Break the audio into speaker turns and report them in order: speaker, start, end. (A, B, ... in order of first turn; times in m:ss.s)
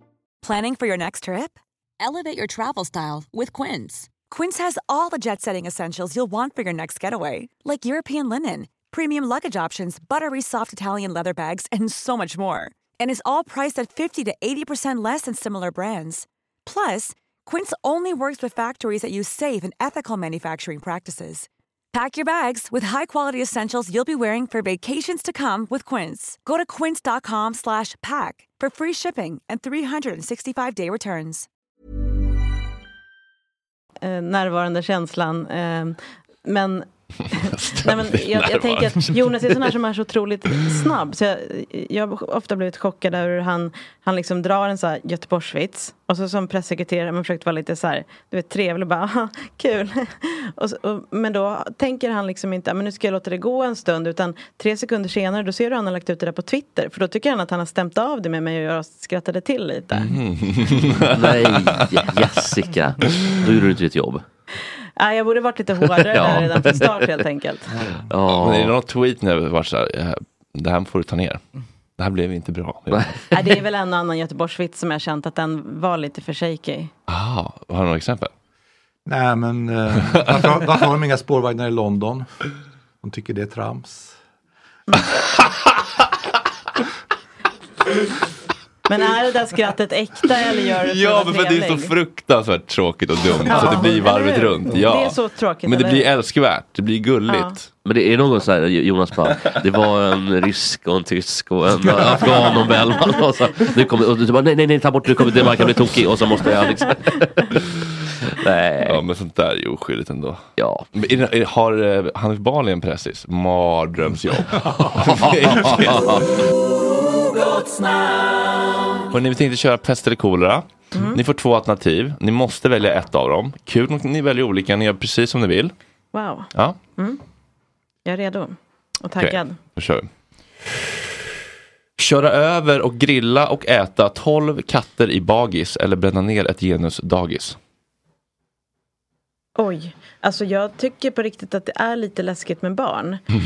0:00.4-0:31.5 A
0:34.0-1:00.2 B
0:37.3-0:39.5 C
0:59.9-1:02.1 C
1:01.1-1:04.2 D
1:05.0-1:07.7 B
1:06.1-1:07.0 D
1:08.0-1:08.7 D
1:08.3-1:11.4 C
1:12.0-1:13.2 C
1:13.3-1:16.9 B
1:17.1-1:18.3 C
1:19.0-1:22.3 E
1:23.0-1:24.2 E
1:28.9-1:31.9 B
1:30.7-1:37.6 C
1:33.4-1:36.1 B
1:37.3-1:37.6 B
1:37.8-1:47.5 D
1:48.2-1:49.0 D
1:48.8-1:50.4 C
1:50.6-1:50.9 D
1:50.9-1:56.3 C
1:54.9-1:56.3 D
1:59.1-2:05.7 C
2:00.9-2:01.2 B
2:06.1-2:07.2 B
2:08.0-2:09.6 B
2:09.2-2:10.1 C
2:10.7-2:10.9 C
2:12.0-2:17.6 C
2:19.6-2:23.2 B